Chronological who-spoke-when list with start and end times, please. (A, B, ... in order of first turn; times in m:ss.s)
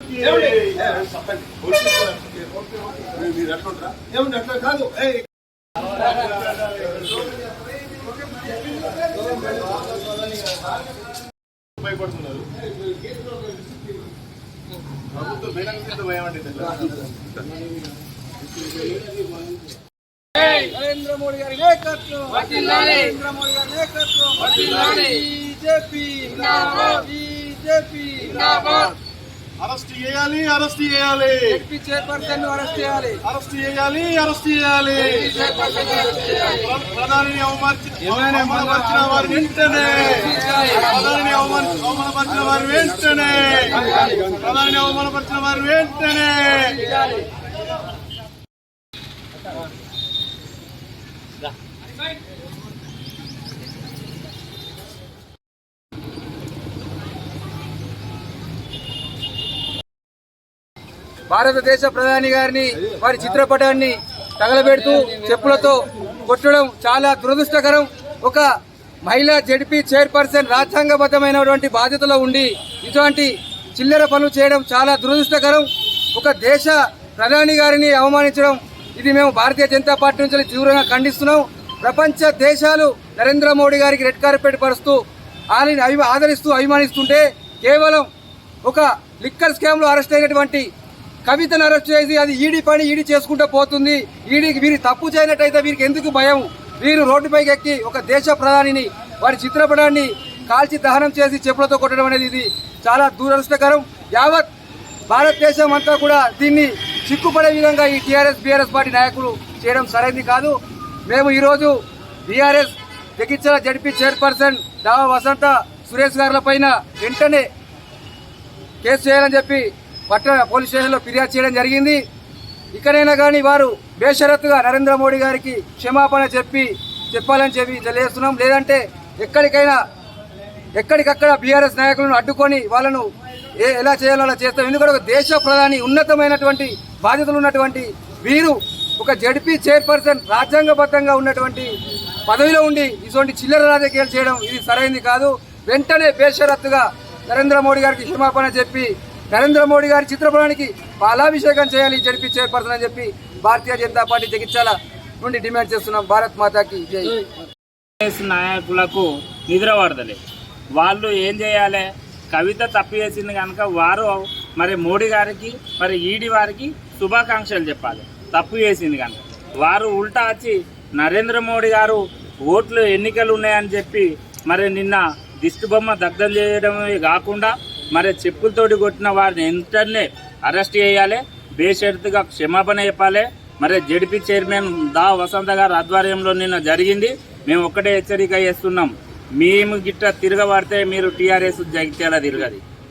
0:00.2-0:02.4 A
0:03.3-0:05.1 A
0:11.8-0:12.4 A
0:15.2-0:16.8 A
0:20.4-0:28.8 B
0:29.6-0:31.5 A
0:31.4-0:33.2 B
0:33.2-0:35.3 A
0:35.2-0:36.5 B
0:36.6-0:40.3 A
0:39.5-0:40.9 B
0:40.8-0:46.8 A
0:46.7-0:47.2 B
1:01.3-1:08.4 B
1:09.0-1:25.0 B
1:25.5-1:28.1 B
1:28.6-1:30.7 B
1:31.2-1:44.5 B
1:45.1-1:57.5 B
1:58.8-2:02.0 B
2:02.7-2:09.8 B
2:10.8-2:21.7 B
2:22.2-2:37.2 B
2:38.0-2:40.2 C
2:40.8-3:12.6 C